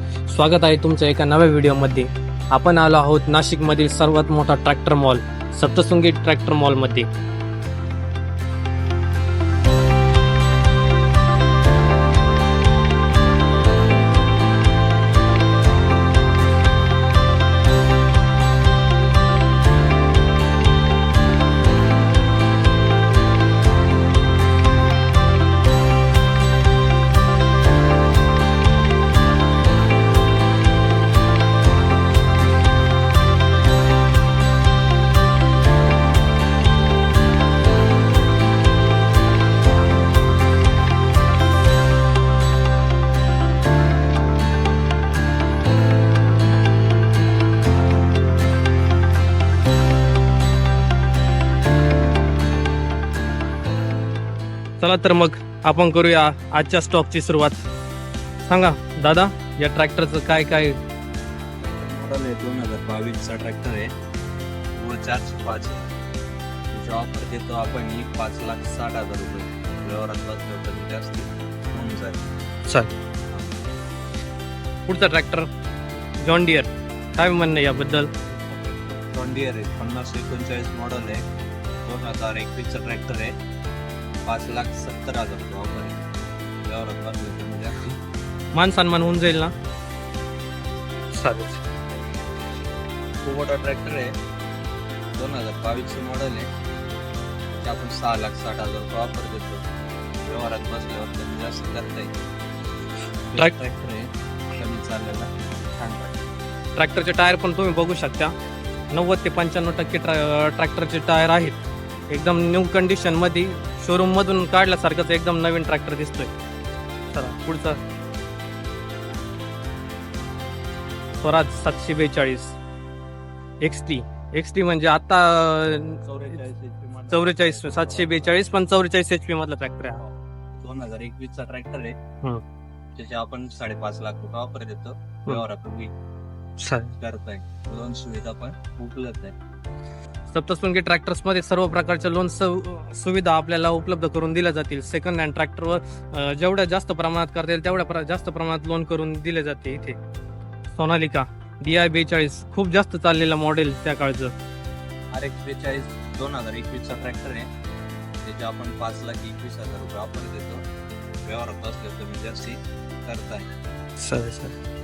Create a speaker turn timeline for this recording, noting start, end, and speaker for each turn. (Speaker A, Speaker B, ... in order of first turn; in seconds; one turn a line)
Speaker A: 0.3-7.1
Speaker A: 54.8-57.6
Speaker A: 58.5-60.8
Speaker B: 61.6-63.9
Speaker B: 64.8-66.0
Speaker B: 66.7-72.2
Speaker B: 73.3-73.6
Speaker A: 74.9-75.5
Speaker A: 76.2-78.1
Speaker B: 78.3-81.2
Speaker B: 81.8-83.3
Speaker B: 84.3-86.0
Speaker B: 86.7-88.0
Speaker A: 88.5-89.5
Speaker A: 91.1-91.6
Speaker B: 93.2-94.1
Speaker B: 95.2-96.5
Speaker B: 97.6-99.7
Speaker B: 100.2-102.2
Speaker B: 103.3-106.2
Speaker A: 106.8-108.3
Speaker A: 108.9-111.6
Speaker A: 112.1-116.3
Speaker A: 117.1-117.8
Speaker A: 121.2-122.6
Speaker A: 123.6-126.0
Speaker B: 126.0-128.6
Speaker A: 127.1-130.0
Speaker B: 130.0-132.0
Speaker B: 133.0-135.9
Speaker A: 136.6-137.0
Speaker B: 137.0-139.3
Speaker A: 140.3-150.0
Speaker A: 150.7-154.3
Speaker B: 155.1-157.5
Speaker B: 158.2-160.6
Speaker B: 161.2-163.5
Speaker A: 164.0-164.6